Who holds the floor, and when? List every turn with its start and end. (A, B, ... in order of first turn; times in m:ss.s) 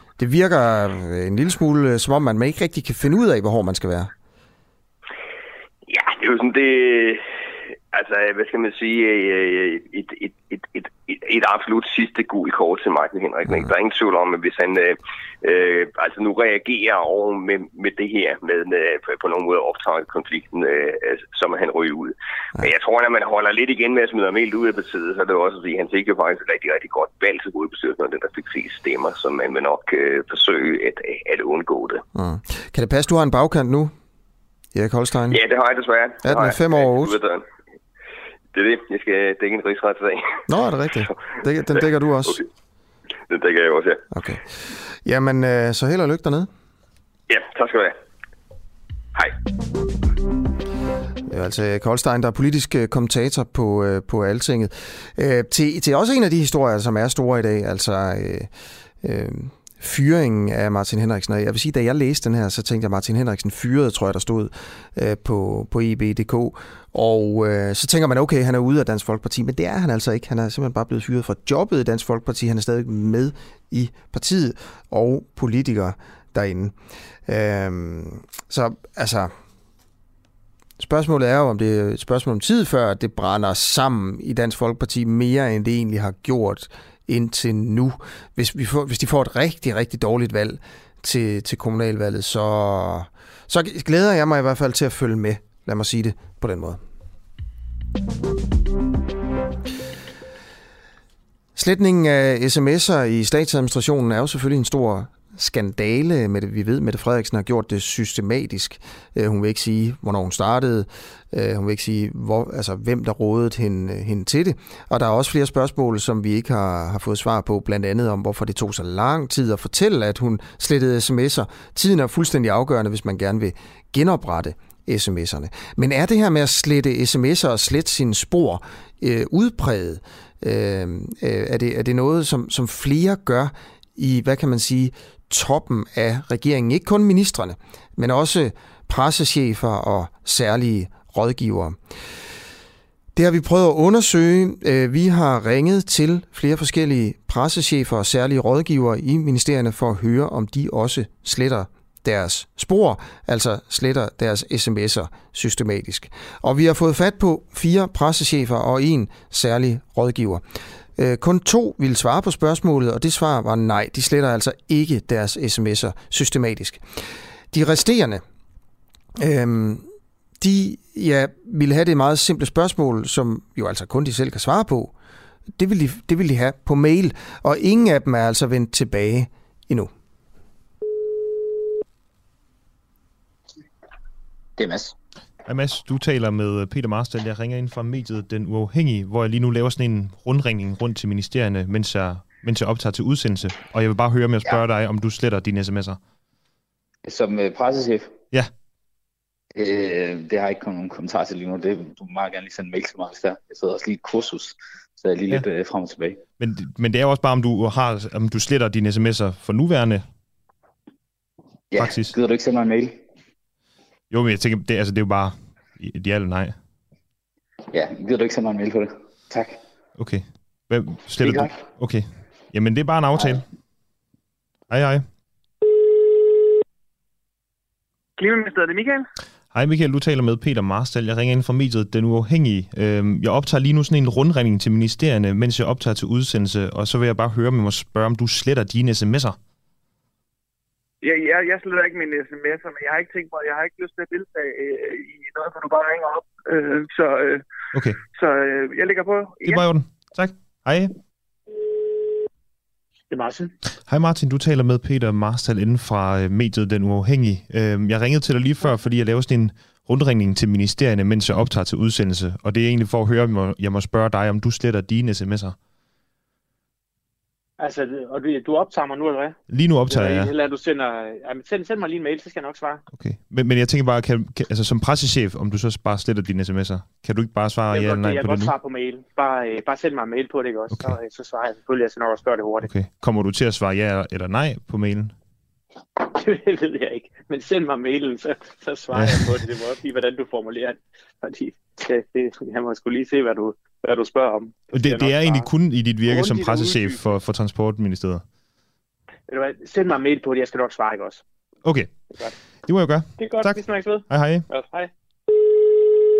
0:00.2-0:04.1 A
0:05.9-0:07.2 B
0:07.9-0:32.0 B
0:32.1-0:33.9 A
0:34.7-0:35.4 A
0:35.3-0:37.4 B
0:36.2-0:37.2 A
0:38.5-0:40.4 B
0:40.5-0:42.4 A
0:43.3-0:44.0 B
0:44.1-0:46.5 A
0:47.3-0:48.0 B
0:51.3-1:16.7 A
1:17.2-1:19.3 A
1:20.8-1:36.8 A
1:41.5-2:21.8 A
2:23.1-2:40.4 A
2:41.0-2:46.8 A
2:47.5-2:48.2 A
2:49.2-2:49.9 A
2:50.4-2:54.9 A
2:55.6-2:59.9 A
3:04.6-3:04.9 C
3:05.4-3:16.0 D
3:17.0-3:18.1 C
3:19.5-3:26.2 C
3:26.4-3:30.0 D
3:31.7-3:33.0 C
3:31.7-3:32.2 D
3:34.1-3:36.6 D
3:37.7-3:39.6 C
3:40.0-3:43.4 D
3:41.2-3:41.6 C
3:44.7-3:45.0 D
3:48.2-3:49.0 E
3:49.5-3:59.4 D
4:01.0-4:07.4 F
4:07.7-4:08.0 D
4:08.1-4:09.7 F
4:09.4-4:10.9 D
4:13.1-4:13.5 E
4:13.9-4:25.6 D
4:27.6-4:29.3 E
4:29.5-4:30.3 D
4:29.9-4:32.8 E
4:32.9-4:38.6 D
4:37.7-4:42.7 E
4:40.7-4:41.0 D
4:42.6-4:45.1 D
4:46.0-4:55.5 E
4:48.9-4:49.4 D
4:54.7-4:58.2 D
4:56.0-4:57.1 E
4:59.3-5:01.2 E
5:01.6-5:02.1 D
5:02.6-5:04.5 D
5:03.2-5:04.9 E